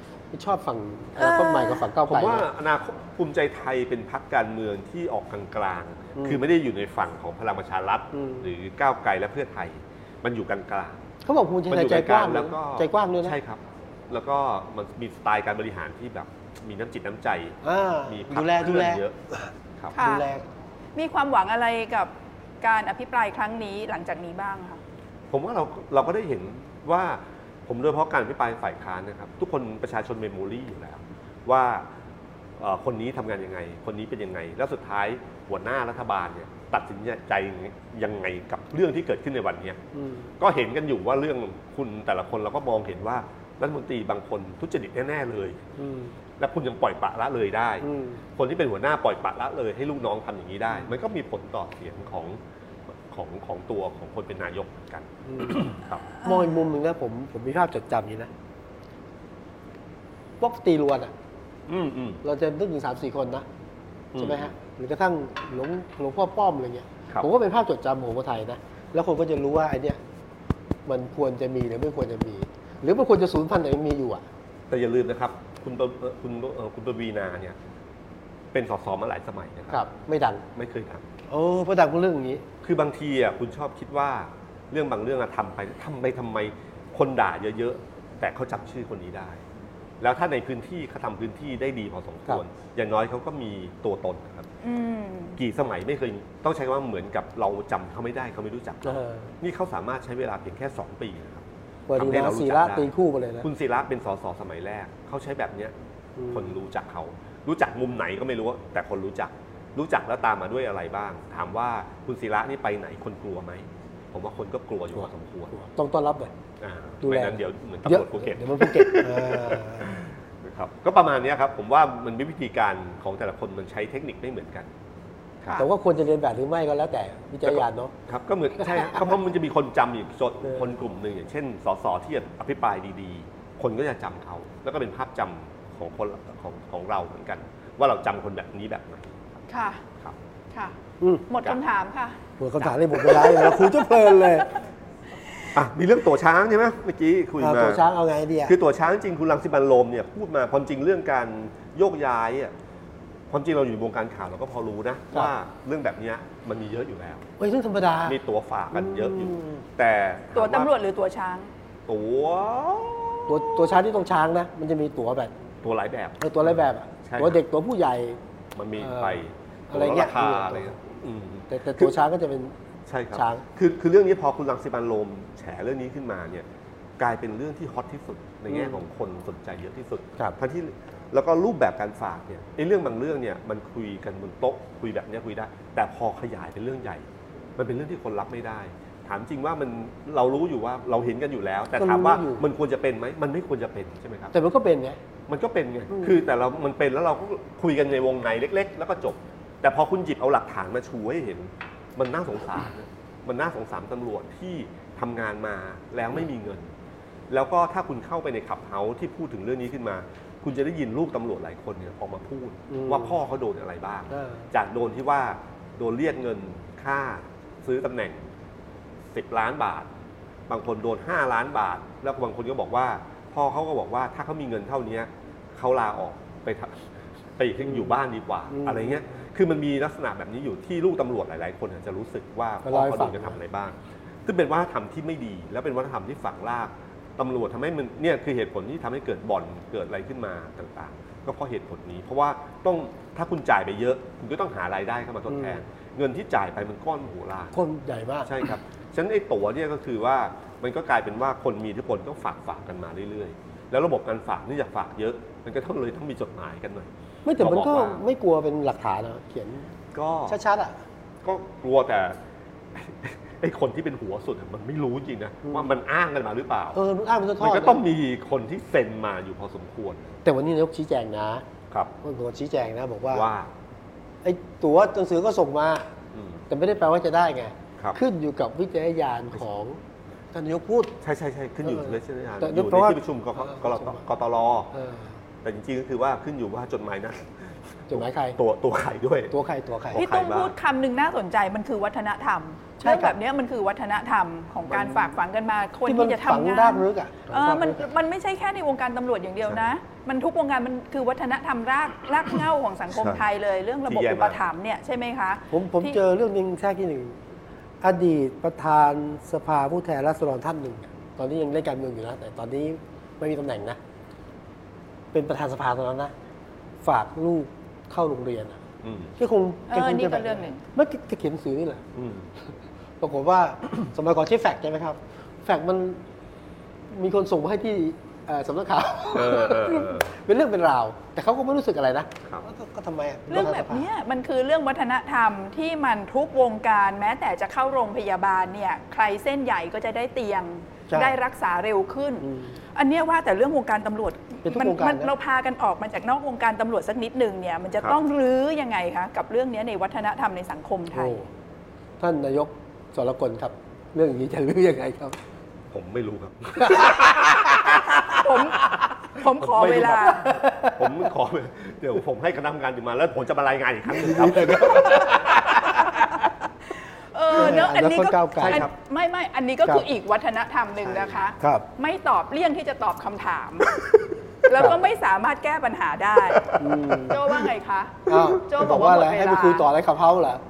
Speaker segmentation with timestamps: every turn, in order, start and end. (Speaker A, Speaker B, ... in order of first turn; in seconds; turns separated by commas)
Speaker A: 0.3-2.5, Speaker B: 1.2-1.9, Speaker C: 2.1-11.0, Speaker A: 6.2-6.4, Speaker A: 8.1-8.5, Speaker A: 11.2-13.3, Speaker C: 11.7-19.1, Speaker A: 17.6-20.4, Speaker B: 19.9-20.3, Speaker B: 20.9-22.1, Speaker B: 22.6-24.8, Speaker C: 25.3-31.9, Speaker C: 32.6-39.8, Speaker A: 39.9-40.3, Speaker C: 40.4-45.6, Speaker A: 45.8-46.1, Speaker C: 46.4-56.1, Speaker A: 47.8-48.2, Speaker A: 55.2-55.7, Speaker A: 56.2-58.3, Speaker A: 60.4-61.1, Speaker C: 61.7-62.2, Speaker A: 62.2-63.5, Speaker C: 64.1-64.5, Speaker A: 64.2-70.0, Speaker A: 70.8-74.2, Speaker C: 74.7-77.6, Speaker C: 78.5-79.8, Speaker A: 79.7-80.4, Speaker C: 80.5-81.0, Speaker A: 81.3-82.4, Speaker C: 82.6-89.4, Speaker C: 90.0-94.5, Speaker B: 94.6-95.4, Speaker C: 95.4-102.9, Speaker A: 98.8-99.3, Speaker A: 101.9-103.5, Speaker C: 103.4-105.7, Speaker A: 106.2-106.5, Speaker C: 106.3-115.5, Speaker A: 115.0-116.3, Speaker C: 116.6-124.7, Speaker A: 117.0-120.0, Speaker A: 125.5-127.9, Speaker C: 127.5-139.4, Speaker A: 128.7-129.0, Speaker B: 139.5-139.8, Speaker A: 141.0-141.2, Speaker B: 141.3-142.2, Speaker A: 142.4-144.5, Speaker C: 142.6-143.8, Speaker C: 145.5-147.8, Speaker A: 147.4-148.5, Speaker C: 148.4-152.5, Speaker C: 153.3-157.3, Speaker A: 157.4-158.2, Speaker C: 158.0-160.7, Speaker A: 158.7-159.6, Speaker B: 160.3-161.5, Speaker C: 161.9-163.8, Speaker A: 163.3-165.3, Speaker C: 165.6-167.4, Speaker A: 166.2-168.2, Speaker C: 168.5-171.9, Speaker A: 168.8-170.7, Speaker A: 171.5-172.5, Speaker C: 172.9-176.5, Speaker A: 173.1-173.4, Speaker C: 177.0-194.3, Speaker A: 178.5-178.8, Speaker A: 191.7-192.4, Speaker A: 194.3-195.0, Speaker C: 195.3-206.7, Speaker A: 195.9-196.2, Speaker C: 207.3-218.3, Speaker A: 212.7-213.2, Speaker A: 214.1-214.5, Speaker C: 219.1-219.9, Speaker C: 220.5-247.5, Speaker A: 228.5-228.9, Speaker A: 232.6-233.4, Speaker A: 245.3-245.6, Speaker A: 247.5-248.3, Speaker C: 248.2-258.0, Speaker A: 257.2-259.7, Speaker C: 259.9-260.4, Speaker A: 260.3-260.8, Speaker C: 261.2-262.2, Speaker C: 262.7-266.8, Speaker A: 265.4-265.7, Speaker A: 266.7-267.8, Speaker C: 267.4-270.2, Speaker A: 270.2-271.4, Speaker A: 272.0-273.3, Speaker C: 273.1-273.5, Speaker A: 274.2-275.9, Speaker C: 276.1-276.4, Speaker A: 276.5-279.8, Speaker A: 280.3-280.9, Speaker C: 281.0-284.7, Speaker A: 281.6-284.0, Speaker A: 284.7-285.1, Speaker C: 285.4-289.3, Speaker A: 287.9-288.4, Speaker A: 289.3-290.0, Speaker C: 289.9-290.5, Speaker B: 289.9-306.0, Speaker A: 292.8-293.1, Speaker A: 294.7-295.1, Speaker A: 295.8-297.9, Speaker C: 302.9-303.2, Speaker C: 303.9-304.4, Speaker A: 305.5-307.2, Speaker A: 307.8-313.8, Speaker A: 315.1-316.1, Speaker A: 316.8-318.6, Speaker C: 318.8-319.1, Speaker A: 319.2-321.8, Speaker B: 319.7-320.6, Speaker C: 321.9-322.3, Speaker A: 323.0-326.0, Speaker A: 326.9-333.9, Speaker C: 329.1-330.1, Speaker B: 333.3-351.2, Speaker A: 340.9-341.2, Speaker A: 342.2-342.6, Speaker A: 344.4-345.1, Speaker A: 350.9-351.3, Speaker A: 352.0-355.2, Speaker C: 355.7-358.2, Speaker A: 356.6-358.2, Speaker B: 358.0-360.3, Speaker C: 359.3-365.9, Speaker A: 360.2-361.0, Speaker A: 363.9-365.9, Speaker B: 365.8-366.3, Speaker B: 367.1-373.8, Speaker A: 367.3-368.6, Speaker C: 368.4-368.7, Speaker C: 370.8-371.3, Speaker A: 371.4-371.6, Speaker B: 374.4-376.5, Speaker C: 376.3-377.3, Speaker A: 376.6-377.2, Speaker B: 377.1-379.7, Speaker A: 378.1-380.4, Speaker C: 378.1-378.4